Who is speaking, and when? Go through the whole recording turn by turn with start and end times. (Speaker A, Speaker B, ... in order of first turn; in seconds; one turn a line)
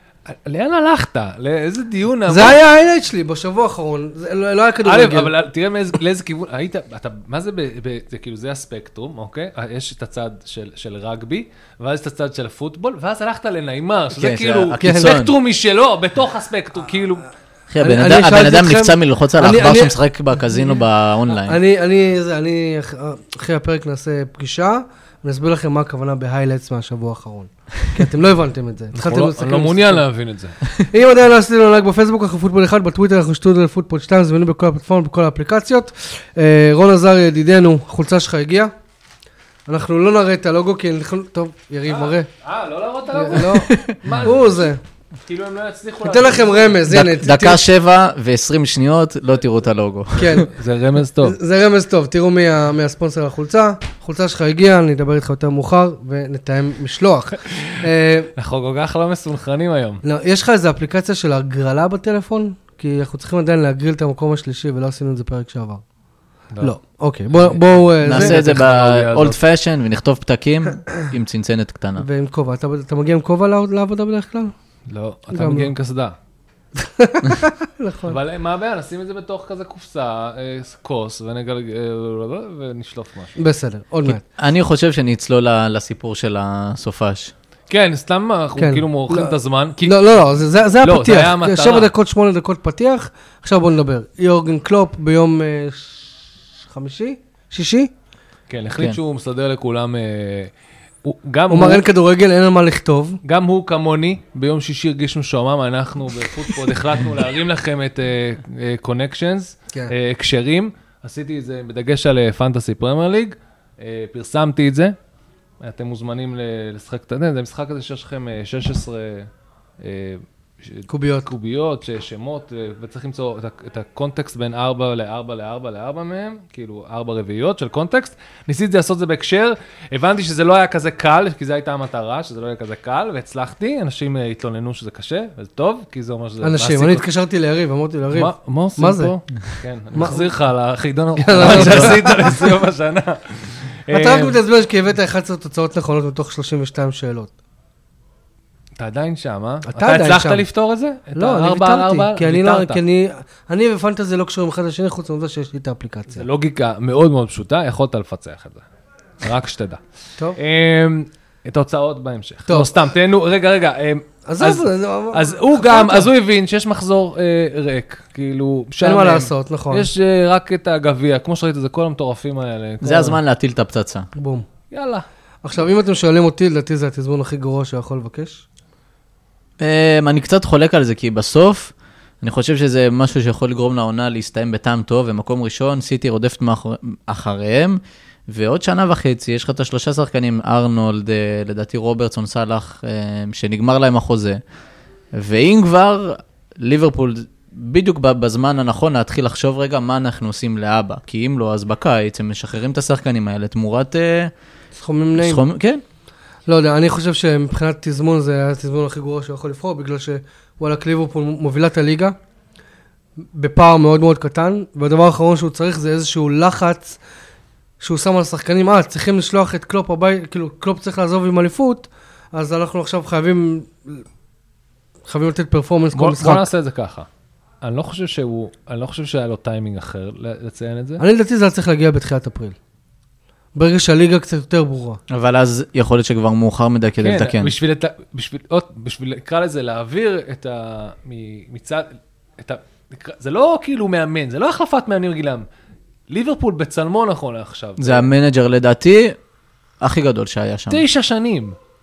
Speaker A: 0.3-2.6
Speaker B: 2.3-5.3
Speaker A: 4.8-17.2
Speaker C: 14.2-15.3
Speaker B: 14.8-15.1
Speaker C: 17.7-21.6
Speaker B: 17.8-19.9
Speaker B: 21.4-30.0
Speaker A: 28.9-30.6
Speaker B: 30.8-38.7
Speaker B: 39.7-42.3
Speaker A: 41.9-44.7
Speaker B: 43.1-44.8
Speaker C: 43.5-44.2
Speaker A: 45.2-46.8
Speaker B: 46.0-47.6
Speaker C: 46.9-50.4
Speaker B: 50.1-50.5
Speaker A: 50.3-51.4
Speaker B: 51.2-58.3
Speaker A: 58.4-60.0
Speaker B: 60.0-65.8
Speaker B: 66.6-68.4
Speaker A: 67.3-69.4
Speaker C: 68.0-72.1
Speaker B: 72.0-74.5
Speaker A: 74.9-76.1
Speaker B: 75.3-75.7
Speaker B: 76.8-78.2
Speaker A: 78.1-83.3
Speaker B: 83.4-84.2
Speaker C: 84.1-87.3
Speaker A: 87.7-90.1
Speaker B: 88.6-97.9
Speaker A: 90.8-91.9
Speaker A: 98.5-100.5
Speaker A: 101.0-101.8
Speaker B: 101.5-103.2
Speaker A: 103.2-114.9
Speaker A: 115.6-119.3
Speaker A: 119.8-137.1
Speaker B: 120.9-121.3
Speaker B: 136.4-139.1
Speaker A: 138.1-144.4
Speaker B: 139.9-140.2
Speaker B: 141.2-142.5
Speaker C: 141.4-141.9
Speaker B: 143.9-147.3
Speaker A: 148.8-152.8
Speaker B: 149.7-150.4
Speaker B: 151.1-156.2
Speaker A: 156.1-158.7
Speaker A: 159.2-159.8
Speaker A: 160.4-173.2
Speaker B: 162.5-162.9
Speaker B: 164.2-166.1
Speaker B: 168.8-169.9
Speaker C: 172.8-174.1
Speaker B: 174.2-174.4
Speaker A: 174.7-175.1
Speaker B: 175.4-178.4
Speaker C: 179.6-194.4
Speaker C: 195.1-204.3
Speaker B: 204.7-205.4
Speaker C: 205.2-205.8
Speaker B: 206.5-212.2
Speaker B: 213.3-217.0
Speaker B: 217.8-224.0
Speaker B: 225.1-226.5
Speaker A: 225.9-227.1
Speaker A: 227.6-231.0
Speaker B: 231.0-232.6
Speaker B: 233.6-235.0
Speaker C: 235.1-237.5
Speaker A: 237.0-245.4
Speaker A: 246.1-248.1
Speaker C: 247.8-249.2
Speaker C: 249.8-250.8
Speaker A: 250.7-251.6